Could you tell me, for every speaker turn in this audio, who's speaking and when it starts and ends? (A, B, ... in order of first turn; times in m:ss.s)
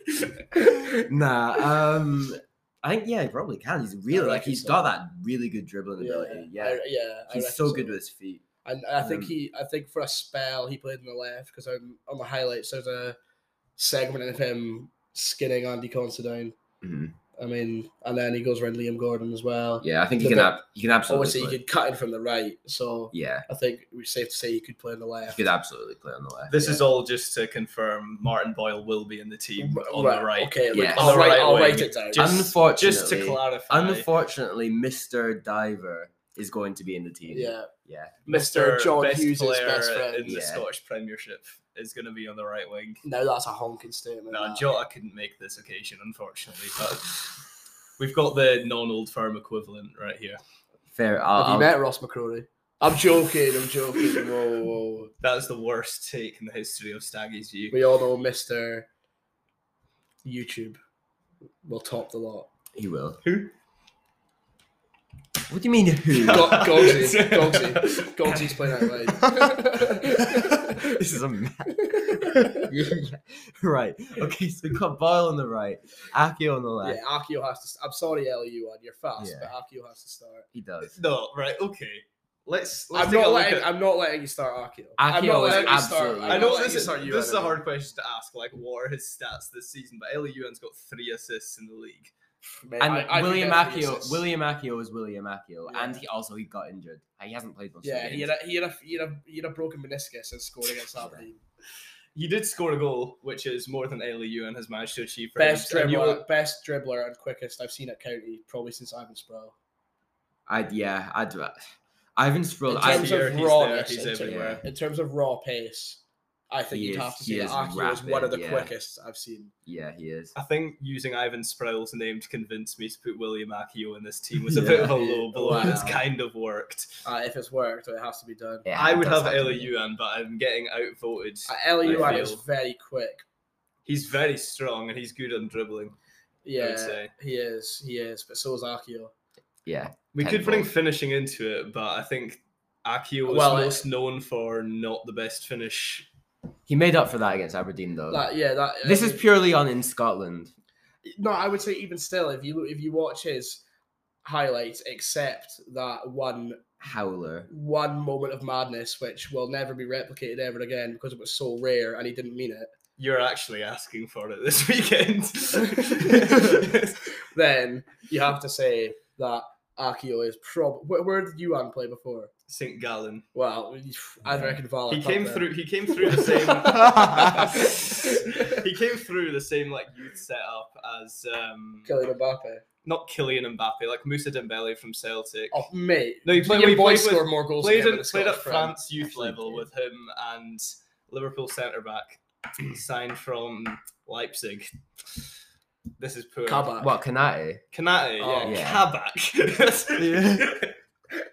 0:00.6-0:00.9 A
0:00.9-0:08.4 B
0:04.1-0:04.8 A
0:06.0-0:08.0 A
0:08.6-0:13.2 A
0:09.0-0:09.3 B
0:13.8-0:16.6 A
0:16.8-0:17.2 B
0:17.4-0:25.4 A
0:19.8-0:21.6 B
0:23.1-0:23.4 B
0:25.3-0:26.6 B
0:26.5-0:34.1 C
0:26.6-0:26.8 A
0:29.6-0:32.4 A
0:30.7-0:31.2 B
0:32.1-0:38.2 B
0:37.3-0:37.7 A
0:38.2-0:43.0 C
0:38.2-0:40.3 A
0:40.2-0:40.6 B
0:43.0-0:44.6 A
0:44.3-0:47.4 C
0:48.0-0:50.4 C
0:50.9-0:51.7 B
0:51.4-0:55.1 A
0:55.2-0:57.8 C
0:57.7-0:58.9 A
1:00.2-1:00.8 A
1:01.6-1:02.5 A
1:02.7-1:03.2 B
1:03.2-1:03.5 C
1:05.5-1:06.9 B
1:06.1-1:09.2 C
1:06.3-1:11.0 A
1:10.2-1:17.0 B
1:11.7-1:12.7 A
1:16.8-1:20.5 A
1:19.2-1:19.5 B
1:20.5-1:21.0 B
1:20.9-1:23.7 C
1:22.9-1:27.6 A
1:25.0-1:26.6 B
1:25.4-1:32.1 C
1:32.5-1:34.2 A
1:32.8-1:38.3 B
1:35.7-1:36.0 A
1:37.8-1:41.4 A
1:41.0-1:41.2 B
1:42.1-1:46.2 C
1:45.4-1:49.6 A
1:50.5-1:51.6 B
1:52.2-1:53.2 B
1:52.7-1:59.5 A
1:52.8-1:54.6 C
1:54.2-1:54.6 B
1:56.7-1:58.7 B
1:59.6-2:00.3 B
2:00.3-2:06.9 C
2:04.5-2:06.0 A
2:07.0-2:08.6 A
2:08.6-2:09.7 B
2:08.7-2:12.4 C
2:11.5-2:13.2 A
2:11.8-2:12.3 B
2:13.9-2:16.0 C
2:16.4-2:19.1 A
2:16.6-2:17.1 C
2:19.6-2:20.7 B
2:20.1-2:26.1 C
2:23.2-2:23.8 A
2:26.7-2:28.2 B
2:28.1-2:29.2 A
2:28.8-2:30.5 B
2:31.0-2:33.6 A
2:34.2-2:36.6 A
2:36.8-2:37.5 B
2:37.5-2:42.7 A
2:43.0-2:47.0 C
2:45.8-2:46.7 A
2:47.3-2:52.3 A
2:52.5-2:53.2 C
2:53.3-2:55.5 A
2:54.9-3:01.9 C
2:56.0-2:58.6 A
3:01.9-3:02.6 A
3:02.8-3:05.6 C
3:05.5-3:08.8 A
3:06.2-3:15.2 C
3:09.1-3:09.6 B
3:16.0-3:16.8 C
3:16.4-3:16.9 A
3:16.8-3:17.6 B
3:17.7-3:20.7 C
3:18.2-3:18.6 A
3:18.4-3:18.9 B
3:20.0-3:20.6 B